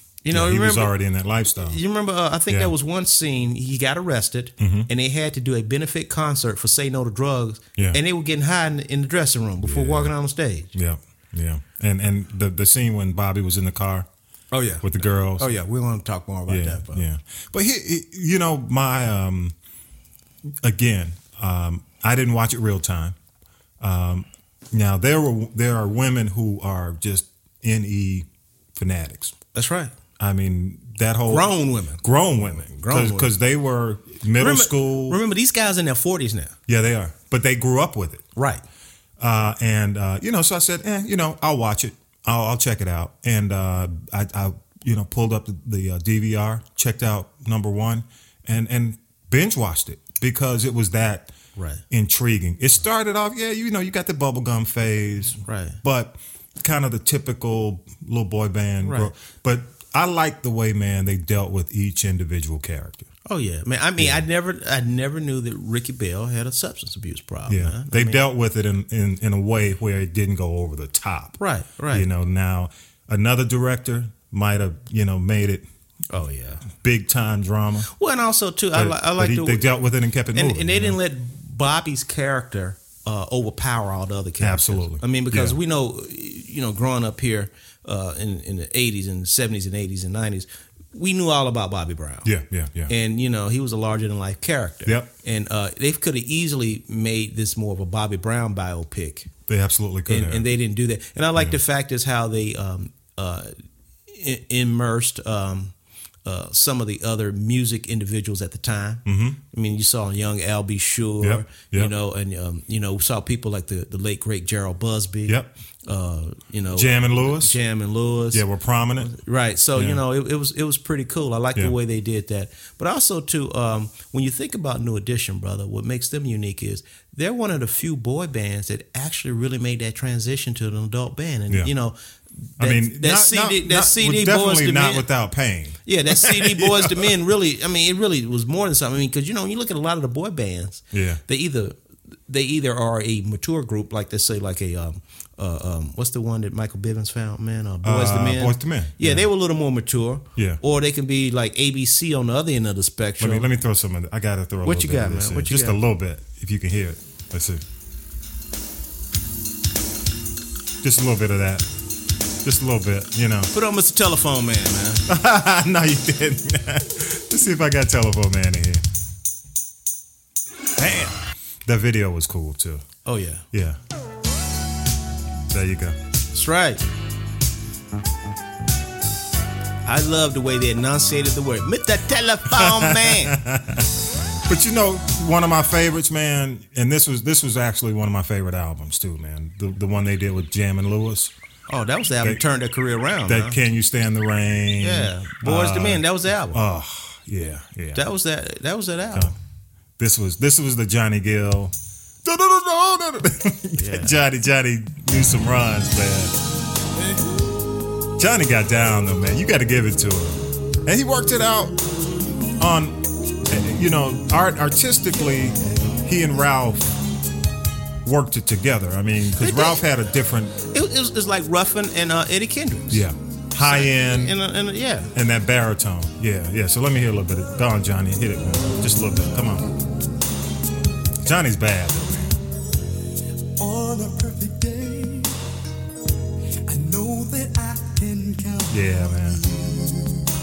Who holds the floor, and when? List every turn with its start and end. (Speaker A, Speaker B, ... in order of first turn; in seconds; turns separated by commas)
Speaker A: 0.2-0.9, Speaker B: 0.3-1.8, Speaker A: 1.5-10.7, Speaker B: 2.5-2.7, Speaker B: 4.6-4.9, Speaker B: 9.6-10.1, Speaker B: 10.7-14.1, Speaker A: 14.5-17.0, Speaker B: 14.8-15.6, Speaker B: 16.5-19.5, Speaker B: 20.6-23.1, Speaker B: 23.8-29.4, Speaker A: 29.5-29.9, Speaker B: 30.2-35.2, Speaker A: 31.3-33.3, Speaker A: 34.4-36.5, Speaker B: 36.7-38.2, Speaker A: 38.4-38.6, Speaker B: 39.2-51.3, Speaker A: 51.5-51.8, Speaker B: 51.9-63.1, Speaker A: 55.4-55.8, Speaker A: 58.8-59.1, Speaker A: 63.2-68.2, Speaker B: 64.0-64.2, Speaker B: 67.5-71.4, Speaker A: 71.4-72.1, Speaker B: 71.9-75.7, Speaker A: 76.1-76.7, Speaker B: 76.7-77.9, Speaker A: 77.9-79.7, Speaker B: 78.7-81.0, Speaker A: 80.3-92.3, Speaker B: 84.4-85.6, Speaker B: 92.2-92.9, Speaker A: 92.9-99.3, Speaker B: 99.5-100.5, Speaker A: 100.1-103.5, Speaker A: 104.1-105.7, Speaker A: 106.2-118.4, Speaker B: 109.0-109.4, Speaker B: 111.2-111.9, Speaker B: 116.7-117.6, Speaker B: 118.3-119.1, Speaker A: 119.0-135.1, Speaker B: 119.7-120.0, Speaker B: 132.6-137.2, Speaker A: 135.8-153.5, Speaker B: 140.9-141.2, Speaker B: 147.8-149.3, Speaker B: 150.3-150.6, Speaker B: 153.2-157.6, Speaker A: 154.6-155.8, Speaker B: 160.8-161.7, Speaker B: 162.4-163.5, Speaker A: 163.5-165.1, Speaker B: 165.1-168.8, Speaker B: 170.7-172.8, Speaker A: 173.0-173.4, Speaker B: 173.5-173.8, Speaker B: 175.5-176.0, Speaker A: 176.3-176.8, Speaker A: 179.8-183.4, Speaker B: 182.5-183.9, Speaker B: 184.5-191.3, Speaker A: 191.7-193.6, Speaker B: 193.3-198.0, Speaker A: 194.8-196.6, Speaker A: 197.9-199.3, Speaker B: 200.0-206.3, Speaker A: 203.8-204.2, Speaker B: 208.2-211.9, Speaker B: 212.6-216.9, Speaker B: 218.0-220.6, Speaker A: 219.4-219.8, Speaker A: 220.7-225.1, Speaker B: 222.9-224.4, Speaker B: 225.1-229.8, Speaker B: 231.2-232.3, Speaker C: 233.6-235.4, Speaker C: 236.7-240.3, Speaker B: 238.7-239.4